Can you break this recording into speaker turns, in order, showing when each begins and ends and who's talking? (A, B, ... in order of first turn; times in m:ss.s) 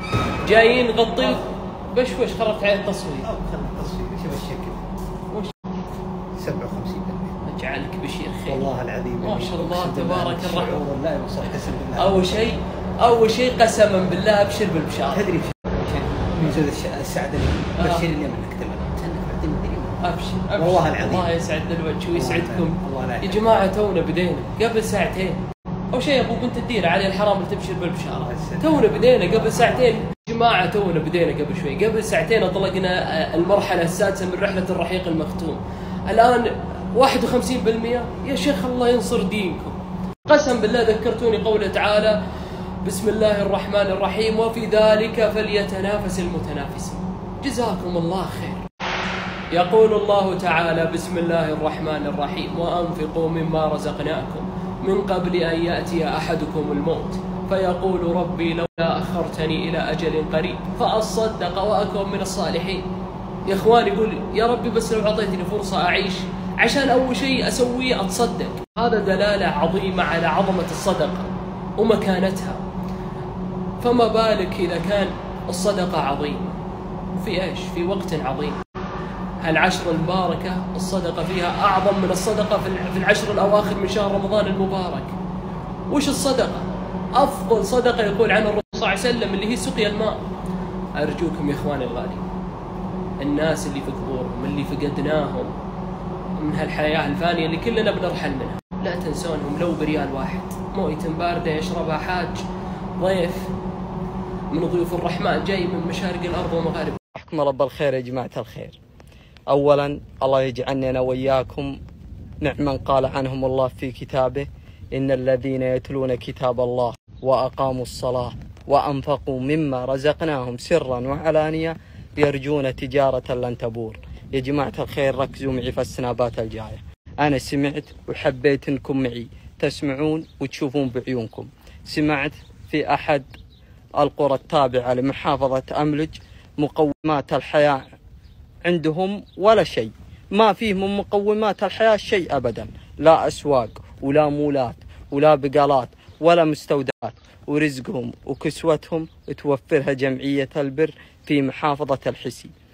0:00.4-0:03.3 A
0:03.3-0:04.8 B
0:06.4-0:07.3 B
0:07.4-0:08.7 A
0:08.5-0:12.3 B
0:09.2-0:10.8 A
0:12.0-0:15.3 A
0:15.1-0:20.0 B
0:17.8-0:18.1 A
0:20.0-0:25.4 A
0:20.6-0:21.3 B
0:22.1-0:23.4 B
0:25.9-0:42.2 A
0:28.3-0:29.7 B
0:42.8-0:48.6 A
0:49.5-1:02.8 A
1:03.4-1:12.6 A
1:13.8-1:16.6 A
1:17.2-1:18.6 A
1:19.4-1:25.1 A
1:25.9-1:30.2 A
1:31.0-1:32.2 A
1:33.2-1:35.5 A
1:36.4-1:42.4 A
1:43.0-1:43.5 A
1:44.5-1:47.0 A
1:47.1-1:48.8 C
1:49.5-1:51.8 C
1:52.4-2:13.2 C
2:14.0-2:17.8 C
2:18.6-2:32.5 C